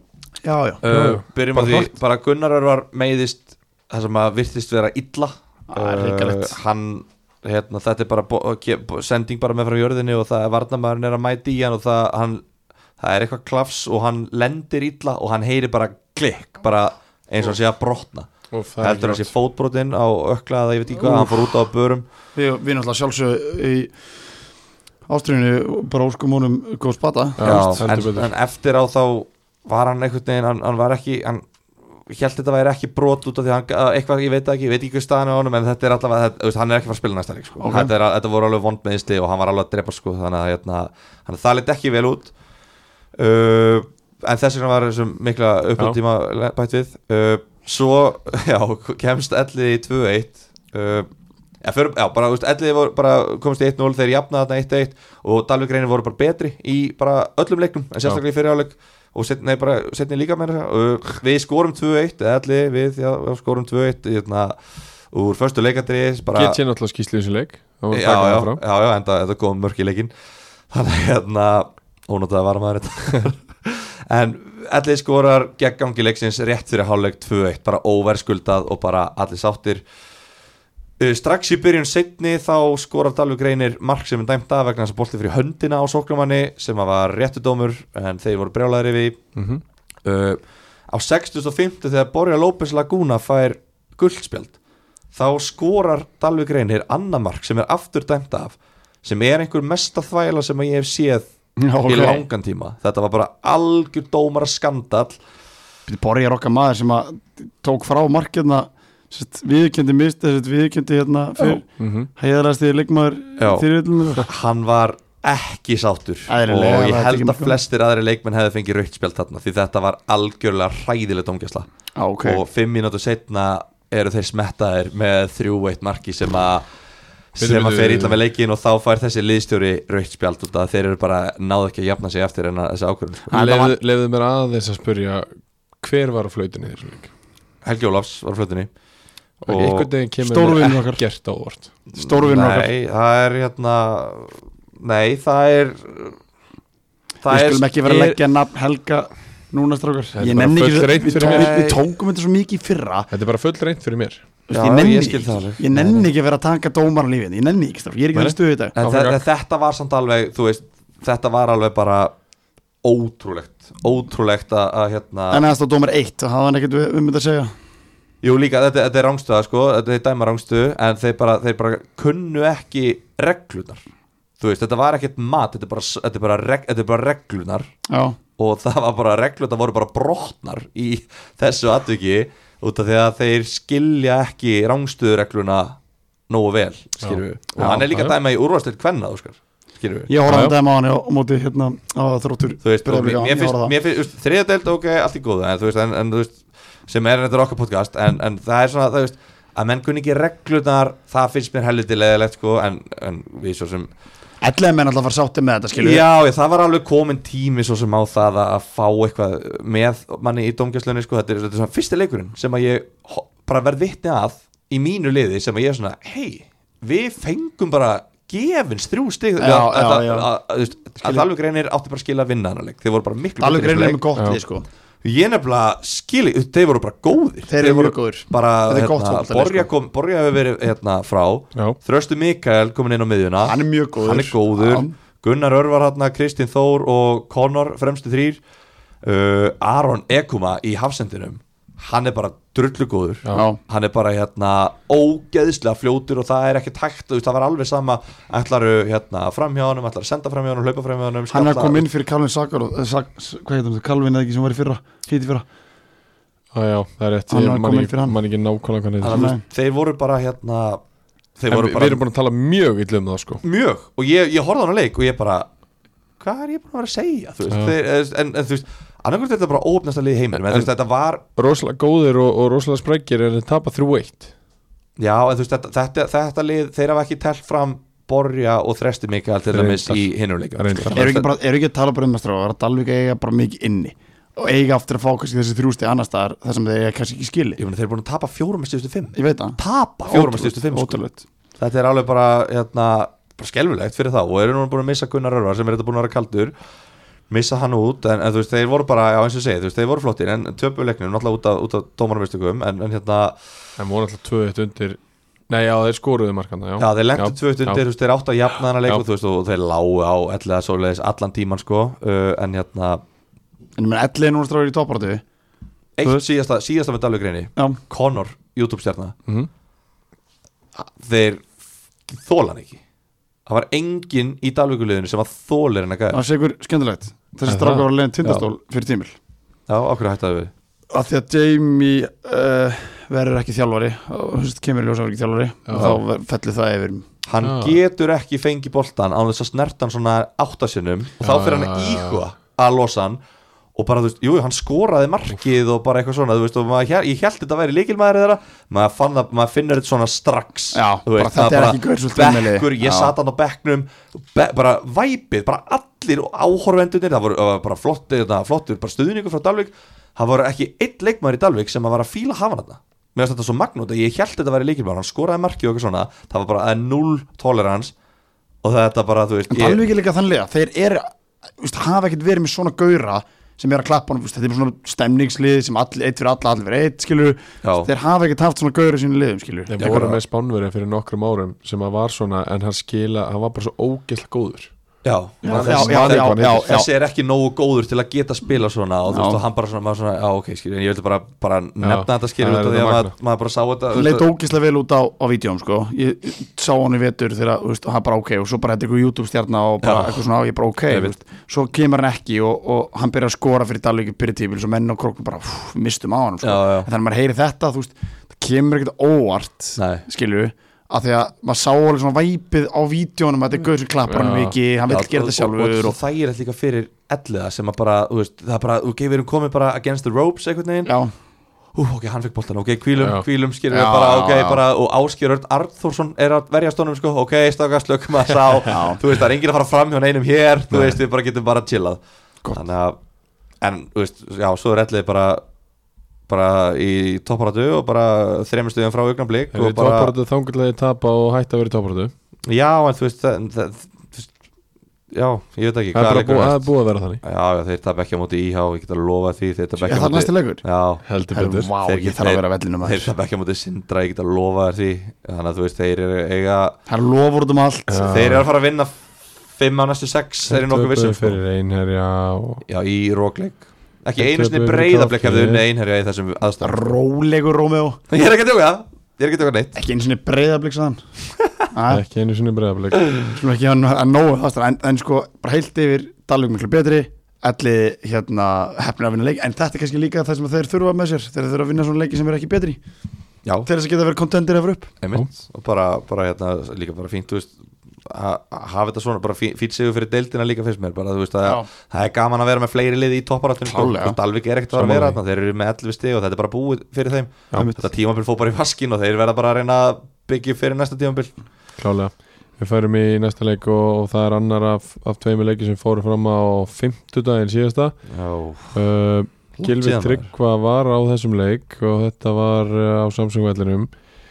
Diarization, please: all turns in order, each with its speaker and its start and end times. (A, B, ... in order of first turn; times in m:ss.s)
0:00.4-0:00.8 A
0:00.8-0:12.4 B
0:00.9-0:01.9 C
0:05.7-0:06.6 A
0:13.0-0:18.3 B
0:18.5-0:19.3 C
0:18.8-0:22.1 B
0:21.1-0:21.3 A
0:22.4-0:24.0 A
0:25.1-0:27.7 A
0:27.4-0:28.3 C
0:27.4-0:31.5 B
0:32.1-0:42.3 B
0:37.6-0:37.9 A
0:43.2-0:51.1 B
0:51.6-1:04.6 B
1:05.1-1:06.6 B
1:06.3-1:08.6 C
1:07.9-1:10.1 B
1:10.7-1:19.8 B
1:21.0-1:29.2 B
1:29.4-1:29.6 C
1:30.0-1:34.5 B
1:35.1-1:41.3 B
1:41.6-1:42.3 A
1:41.8-1:45.2 B
1:45.9-1:54.3 A
1:51.8-1:52.1 C
1:53.4-2:01.7 B
1:56.3-1:57.6 A
2:02.0-2:02.4 A
2:02.2-2:06.6 B
2:07.4-2:13.4 B
2:07.4-2:08.2 C
2:13.3-2:13.8 A
2:13.3-2:15.3 C
2:15.8-2:17.1 C
2:17.6-2:18.7 B
2:19.4-2:19.9 B
2:19.5-2:21.7 C
2:20.2-2:21.0 A
2:21.9-2:22.7 A
2:22.0-2:26.2 B
2:27.2-2:28.2 B
2:27.2-2:33.1 A
2:30.2-2:31.5 C
2:31.0-2:31.8 B
2:33.1-2:34.2 C
2:34.5-2:38.8 A
2:34.5-2:36.1 B
2:38.1-2:39.2 C
2:38.8-2:42.1 B
2:42.8-2:45.4 B
2:45.3-2:47.5 A
2:48.2-2:53.8 B
2:54.4-2:57.7 B
2:57.9-2:58.2 A
2:58.4-3:05.8 B
3:06.3-3:10.1 B
3:07.0-3:08.1 C
3:10.1-3:13.7 A
3:10.3-3:10.6 C
3:12.6-3:23.9 B
3:24.4-3:26.0 A
3:25.8-3:44.0 B
3:39.4-3:40.3 A
3:41.0-3:41.3 A
3:43.4-3:44.6 A
3:45.0-3:58.4 B
3:47.5-3:49.7 A
3:53.4-3:54.9 A
3:59.0-4:11.8 B
4:03.3-4:03.6 A
4:11.3-4:15.4 A
4:16.5-4:19.3 C
4:17.3-4:18.2 A
4:19.0-4:20.8 B
4:19.1-4:19.4 A
4:21.4-4:22.0 B
4:21.5-4:23.4 C
4:23.4-4:25.5 B
4:26.2-4:31.2 B
4:31.4-4:34.3 C
4:35.0-4:41.3 B
4:39.5-4:41.1 C
4:40.9-4:47.6 A
4:47.6-4:51.0 B
4:49.1-4:51.2 A
4:51.6-4:56.5 B
4:57.3-5:03.4 B
5:03.8-5:05.0 C
5:05.5-5:07.8 C
5:06.8-5:13.0 B
5:13.8-5:15.2 A
5:16.0-5:19.2 B
5:20.8-5:21.5 B
5:22.1-5:22.8 B
5:23.5-5:26.2 B
5:26.1-5:29.2 A
5:27.5-5:27.9 C
5:29.7-5:30.5 B
5:30.9-5:37.1 A
5:35.7-5:36.0 C
5:37.2-5:43.2 B
5:37.4-5:37.8 C
5:41.2-5:42.2 C
5:43.8-6:07.9 B
5:50.7-5:53.2 A
6:08.6-6:09.8 B
6:09.5-6:20.0 A
6:17.6-6:17.9 B
6:19.7-6:24.7 C
6:19.8-6:20.2 B
6:25.0-6:34.3 B
6:25.4-6:26.9 A
6:25.4-6:26.8 C
6:29.1-6:29.4 A
6:31.8-6:33.1 C
6:33.9-6:56.0 A
6:39.8-6:40.2 B
6:40.9-6:41.2 B
6:46.4-6:46.9 B
6:49.8-6:50.0 B
6:54.1-6:54.6 C
6:54.9-7:00.9 B
7:00.9-7:01.1 A
7:01.8-7:12.0 B
7:03.0-7:03.2 C
7:03.7-7:04.6 A
7:08.7-7:09.0 A
7:10.7-7:11.0 C
7:12.5-7:13.0 B
7:13.6-7:15.4 B
7:16.3-7:20.1 B
7:19.5-7:22.1 C
7:22.5-7:24.3 B
7:25.1-7:26.7 B
7:25.9-7:27.2 C
7:27.2-7:31.0 B
7:29.8-7:30.6 A
7:31.0-7:31.7 C
7:31.3-7:33.1 A
7:31.8-7:36.8 B
7:36.9-7:38.1 A
7:37.9-7:38.5 C
7:38.1-7:39.0 B
7:39.5-7:41.4 B
7:40.5-7:42.6 C
7:42.7-7:47.0 B
7:44.2-7:45.6 C
7:46.6-7:48.0 A
7:48.1-7:49.8 B
7:49.8-7:51.0 A
7:51.7-7:52.0 A
7:51.9-7:53.1 C
7:53.2-8:02.8 A
8:03.7-8:04.9 A
8:05.0-8:07.5 B
8:08.0-8:21.3 B
8:13.6-8:14.2 A
8:14.7-8:15.2 C
8:17.6-8:17.8 A
8:21.8-8:28.0 C
8:28.1-8:28.8 B
8:28.7-8:33.9 C
8:29.6-8:30.3 B